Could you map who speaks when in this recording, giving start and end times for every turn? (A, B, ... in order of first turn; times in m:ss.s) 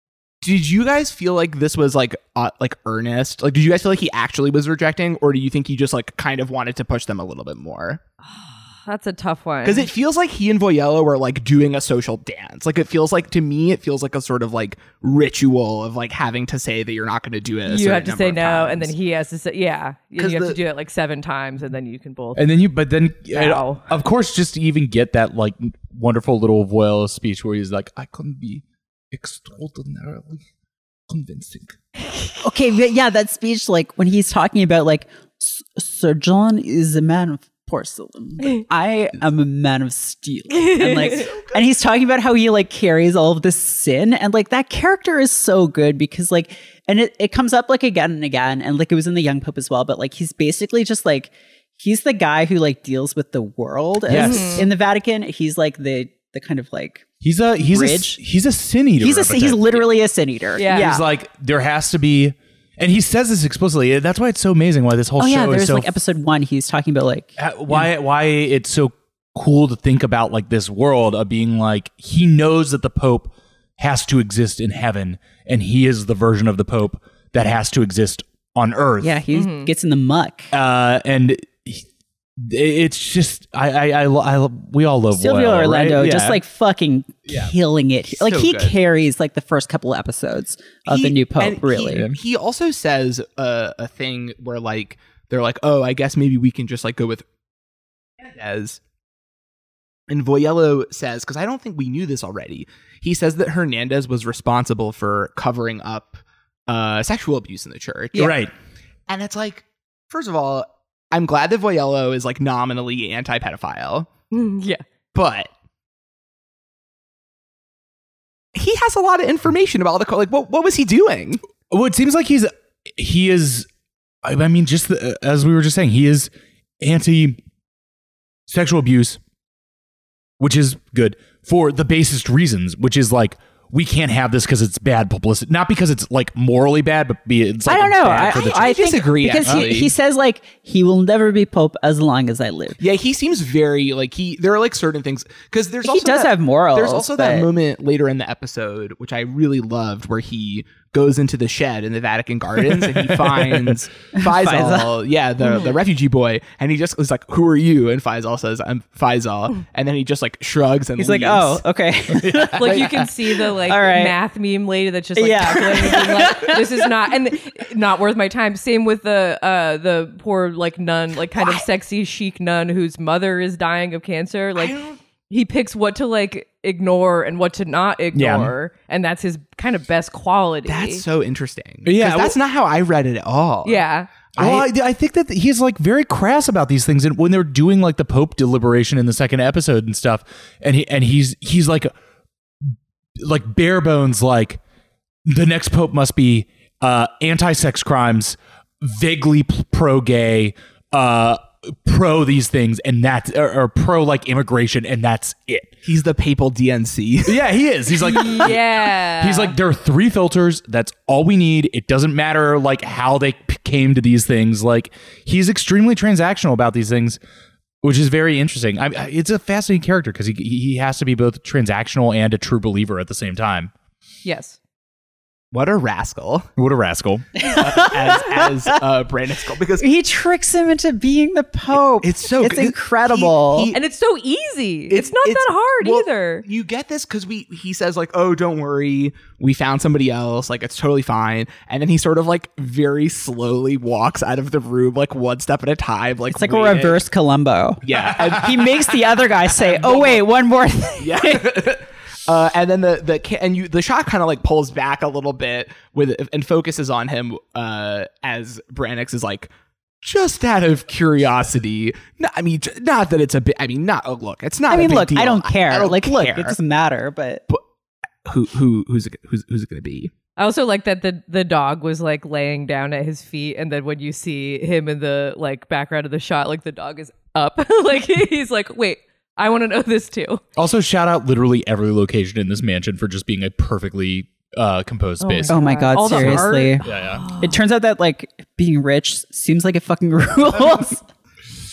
0:00.4-0:08.0 A
0:08.3-0:09.9 B
0:09.6-0:18.9 A
0:17.6-0:22.5 B
0:20.2-0:20.6 A
0:22.4-0:30.5 C
0:23.3-0:23.9 B
0:31.1-0:31.8 C
0:32.4-0:57.0 D
0:40.6-0:41.3 B
0:41.0-0:41.6 A
0:54.1-0:54.7 C
0:54.1-0:54.7 B
0:57.2-0:59.9 C
0:57.6-0:58.2 D
0:59.0-1:01.0 D
1:00.6-1:00.9 B
1:00.7-1:05.9 C
1:05.2-1:07.9 D
1:07.4-1:19.2 C
1:19.0-1:20.5 D
1:19.3-1:19.7 B
1:20.5-1:21.8 C
1:22.4-1:26.4 C
1:25.1-1:32.1 D
1:28.1-1:28.8 A
1:30.9-1:37.2 A
1:31.9-1:32.2 C
1:38.2-1:38.8 A
1:40.1-1:48.4 A
1:48.2-1:48.5 C
1:49.1-1:54.1 A
1:54.3-1:54.8 B
1:55.1-1:55.5 A
1:58.6-2:01.4 A
2:01.7-2:03.7 C
2:04.2-2:07.4 C
2:08.5-2:09.2 C
2:10.4-2:18.8 C
2:17.7-2:22.8 D
2:18.3-2:19.9 A
2:19.4-2:19.7 C
2:22.8-2:41.6 A
2:25.8-2:27.5 D
2:32.7-2:33.8 C
2:34.1-2:35.0 D
2:35.4-2:35.8 B
2:41.0-2:44.2 D
2:42.1-2:42.8 C
2:42.6-2:54.8 B
2:45.2-2:46.9 D
2:51.4-2:51.6 A
2:54.6-2:55.0 A
2:55.3-3:01.0 B
2:58.1-2:58.5 C
3:00.7-3:04.7 A
3:01.8-3:02.4 C
3:03.6-3:04.1 B
3:04.4-3:11.9 C
3:12.6-3:14.6 C
3:15.3-3:25.7 C
3:25.8-3:27.4 A
3:27.3-3:37.2 C
3:28.0-3:29.6 B
3:37.8-3:43.7 C
3:44.2-3:44.6 B
3:45.5-3:46.5 A
3:46.6-3:47.4 C
3:47.4-3:48.7 D
3:47.4-3:49.9 A
3:49.8-3:53.7 D
3:52.0-3:53.8 A
3:53.7-3:56.5 B
3:54.9-4:07.0 A
4:06.3-4:11.6 D
4:07.8-4:10.2 A
4:11.0-4:26.6 A
4:24.7-4:27.4 D
4:28.2-4:30.1 A
4:30.4-4:40.4 B
4:40.6-4:47.3 C
4:45.2-4:47.6 B
4:45.5-4:46.8 D
4:47.4-4:51.0 D